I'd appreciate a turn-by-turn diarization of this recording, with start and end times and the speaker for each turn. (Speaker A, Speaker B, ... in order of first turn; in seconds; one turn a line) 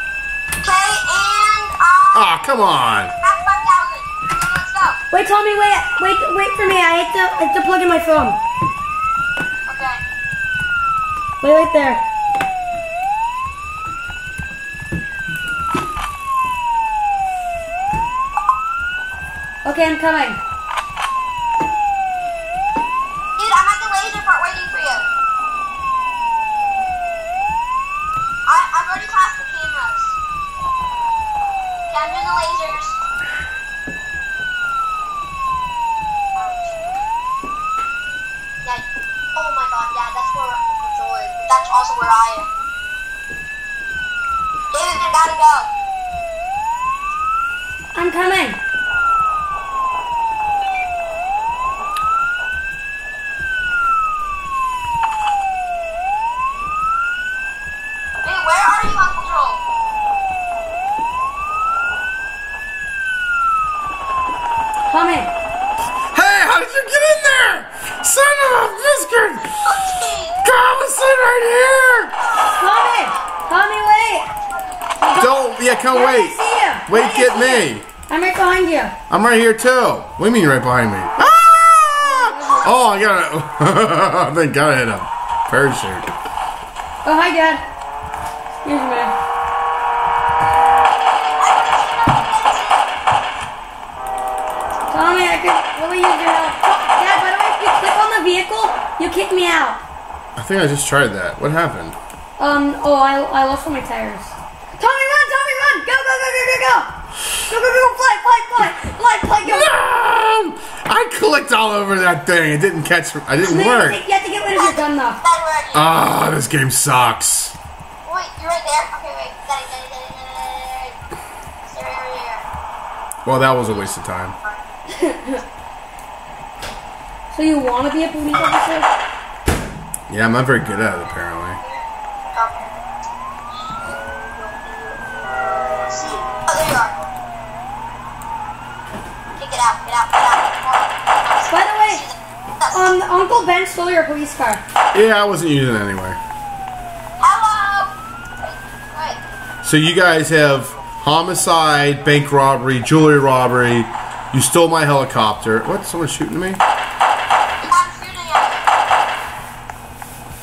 Speaker A: 0.6-2.4
Speaker B: 2.1-3.1
Speaker A: 3.2-5.0
Speaker C: 5.1-8.4
Speaker A: 9.7-10.0
Speaker C: 11.4-12.0
Speaker C: 19.6-20.4
Speaker A: 23.4-25.1
Speaker A: 28.4-30.2
Speaker A: 31.9-33.0
Speaker A: 36.3-36.8
Speaker A: 38.6-42.5
Speaker A: 44.7-45.7
Speaker C: 47.9-48.6
Speaker A: 58.2-59.6
Speaker C: 64.9-65.3
Speaker B: 66.1-69.6
Speaker A: 69.6-70.4
Speaker B: 70.4-72.1
Speaker A: 72.2-73.4
Speaker C: 72.6-74.3
Speaker A: 74.1-75.8
Speaker C: 75.0-78.9
Speaker B: 75.2-77.8
Speaker B: 79.1-86.1
Speaker C: 81.2-82.7
Speaker C: 87.0-87.6
Speaker C: 88.6-89.2
Speaker A: 91.0-92.9
Speaker C: 94.9-99.8
Speaker B: 100.3-102.0
Speaker C: 102.4-106.9
Speaker C: 107.4-109.7
Speaker B: 109.4-114.0
Speaker C: 113.4-115.2
Speaker A: 114.5-115.9
Speaker B: 115.7-117.5
Speaker A: 118.0-121.0
Speaker A: 121.7-122.5
Speaker B: 123.2-124.3
Speaker C: 124.9-125.4
Speaker C: 127.3-128.9
Speaker B: 130.1-131.6
Speaker A: 131.6-132.7
Speaker A: 133.8-136.9
Speaker A: 139.4-142.9
Speaker C: 141.5-142.1
Speaker C: 142.7-144.6
Speaker B: 144.9-146.2
Speaker A: 147.2-149.2
Speaker B: 149.6-156.6
Speaker A: 157.6-158.7